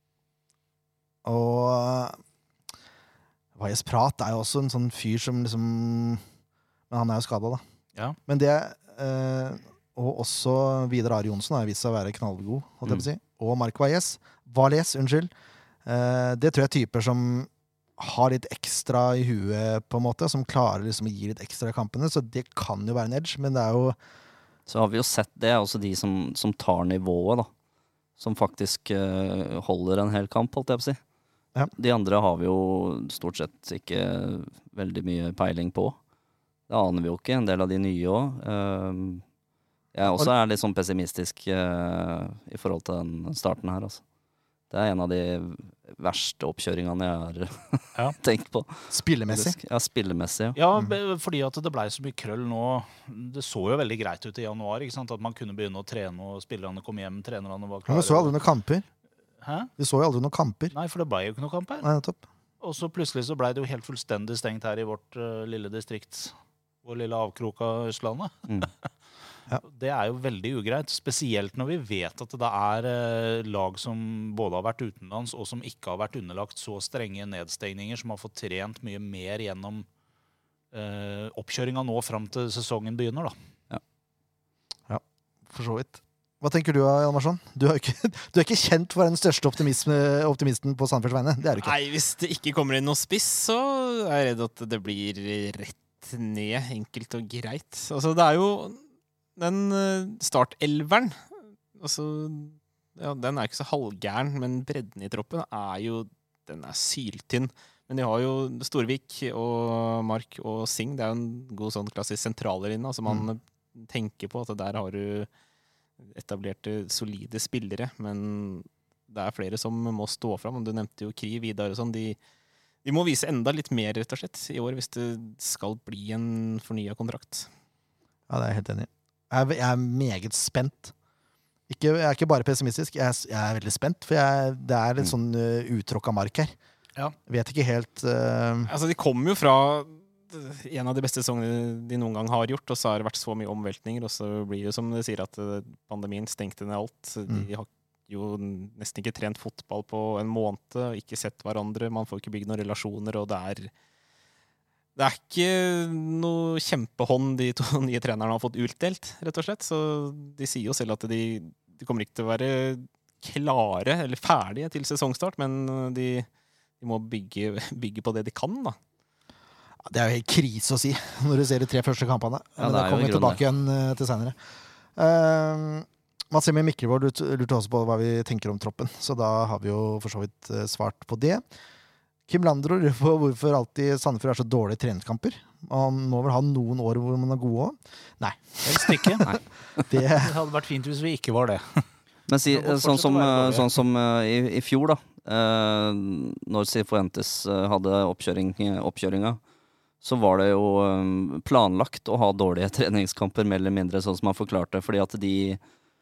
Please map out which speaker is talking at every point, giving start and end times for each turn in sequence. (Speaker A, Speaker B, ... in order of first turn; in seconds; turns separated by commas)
Speaker A: 1.2-2.2, Speaker A: 3.5-6.2, Speaker A: 6.9-7.6, Speaker A: 8.3-15.3, Speaker A: 15.8-24.0, Speaker B: 24.7-27.5, Speaker B: 28.2-31.0, Speaker B: 31.8-36.0, Speaker B: 36.7-39.2, Speaker B: 39.9-44.0, Speaker B: 44.7-50.6, Speaker A: 48.9-49.6, Speaker C: 50.5-58.4, Speaker A: 57.9-58.8, Speaker C: 59.4-59.7, Speaker A: 59.8-60.7, Speaker C: 60.7-61.9, Speaker A: 61.8-62.2, Speaker C: 62.6-68.7, Speaker C: 69.6-79.9, Speaker C: 80.7-83.3, Speaker A: 84.9-91.7, Speaker D: 91.6-98.8, Speaker D: 99.3-115.3, Speaker D: 116.0-122.2, Speaker D: 122.8-127.5, Speaker A: 128.3-130.9, Speaker A: 131.7-136.5, Speaker A: 137.3-138.7, Speaker D: 138.7-153.7, Speaker D: 154.9-166.3, Speaker D: 166.8-168.8, Speaker A: 169.8-174.3, Speaker B: 172.6-173.4, Speaker A: 174.9-181.4, Speaker A: 182.3-189.3, Speaker C: 188.6-189.3, Speaker A: 189.9-190.3, Speaker C: 190.1-191.9, Speaker B: 192.3-199.4, Speaker C: 192.5-193.7, Speaker B: 200.0-205.6